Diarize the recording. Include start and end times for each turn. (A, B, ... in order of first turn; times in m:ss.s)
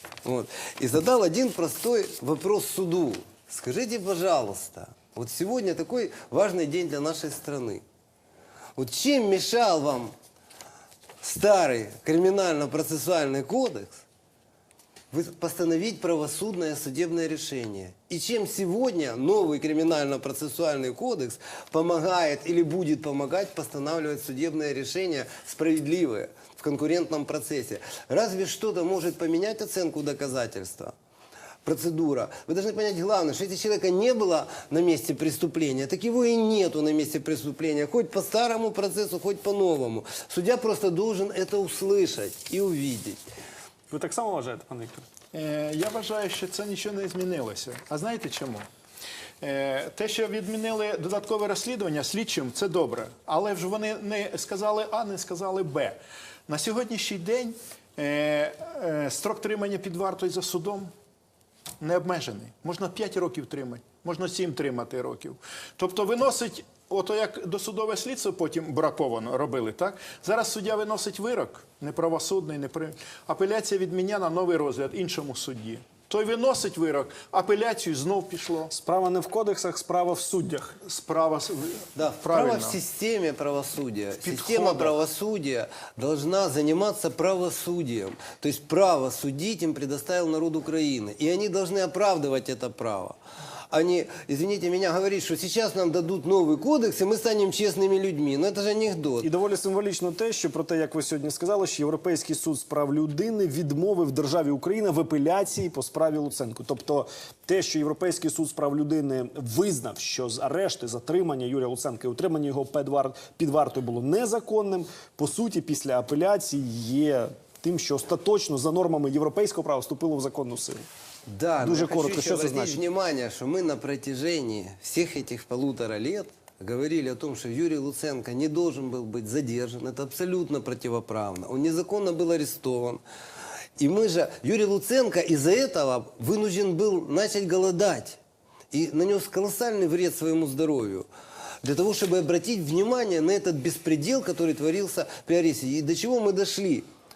0:00.2-0:07.8 A
0:08.8-0:10.1 A
0:11.2-0:14.0 A
0:15.1-0:30.9 A
0:31.6-0:43.2 A
0:43.9-0:45.1 B
0:45.3-0:48.7 C
0:49.4-0:56.0 C
0:56.5-1:00.9 C
1:01.8-1:18.7 C
1:18.7-1:20.8 B
1:20.8-1:22.8 C
1:22.0-1:33.2 A
1:24.2-1:25.0 C
1:33.7-1:39.3 A
1:39.2-2:00.9 B
2:01.3-2:13.0 A
2:01.6-2:02.8 B
2:13.8-2:18.2 A
2:18.7-2:21.1 A
2:21.6-2:26.9 A